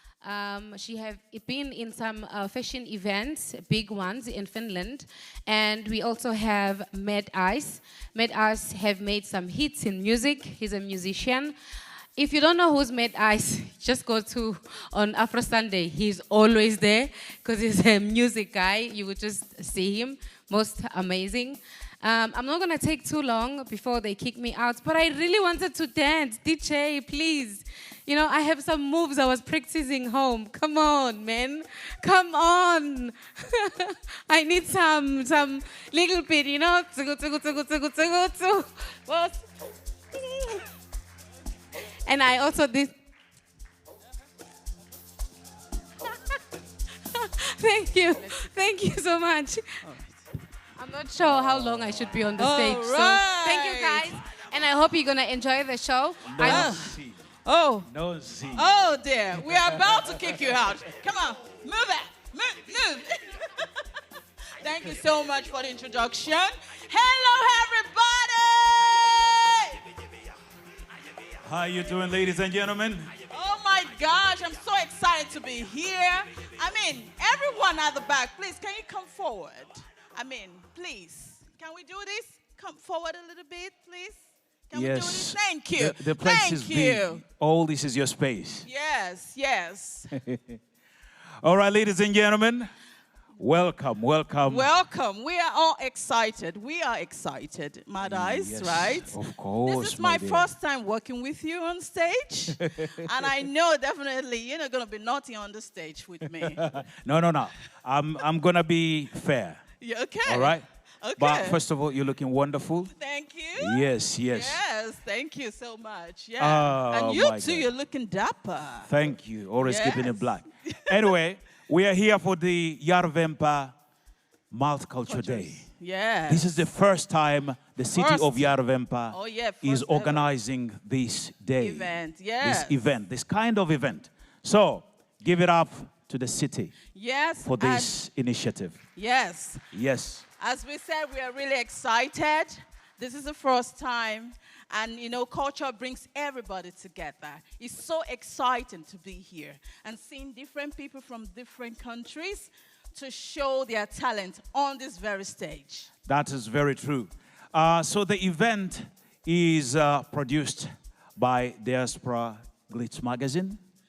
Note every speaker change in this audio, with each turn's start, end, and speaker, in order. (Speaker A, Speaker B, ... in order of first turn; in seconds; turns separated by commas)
Speaker A: 0.2-11.5, Speaker A: 12.2-39.4, Speaker A: 40.3-40.6, Speaker A: 42.0-42.9, Speaker A: 47.1-49.6, Speaker B: 49.8-50.1, Speaker A: 50.8-56.7, Speaker B: 52.4-54.1, Speaker C: 56.2-57.2, Speaker B: 56.4-57.9, Speaker C: 57.9-58.7, Speaker B: 58.5-63.7, Speaker C: 59.4-60.6, Speaker B: 64.6-69.8, Speaker C: 71.4-73.1, Speaker B: 73.3-87.2, Speaker C: 84.7-88.7, Speaker B: 88.6-90.1, Speaker C: 90.1-90.6, Speaker C: 91.4-92.7, Speaker C: 93.4-94.7, Speaker B: 94.4-106.7, Speaker C: 98.0-100.5, Speaker C: 106.3-109.6, Speaker B: 109.8-111.6, Speaker C: 110.2-110.7, Speaker C: 111.2-112.9, Speaker B: 113.0-119.0, Speaker C: 113.5-114.6, Speaker C: 116.4-117.7, Speaker C: 118.8-123.7, Speaker B: 119.6-121.1, Speaker C: 124.5-125.6, Speaker B: 125.1-126.7, Speaker C: 126.3-136.8, Speaker B: 127.9-128.5, Speaker B: 129.1-130.3, Speaker B: 131.6-132.8, Speaker B: 136.9-137.9, Speaker C: 137.4-138.8, Speaker B: 138.9-139.7, Speaker C: 139.7-140.2, Speaker B: 140.4-155.9, Speaker C: 156.1-160.7, Speaker C: 161.2-163.6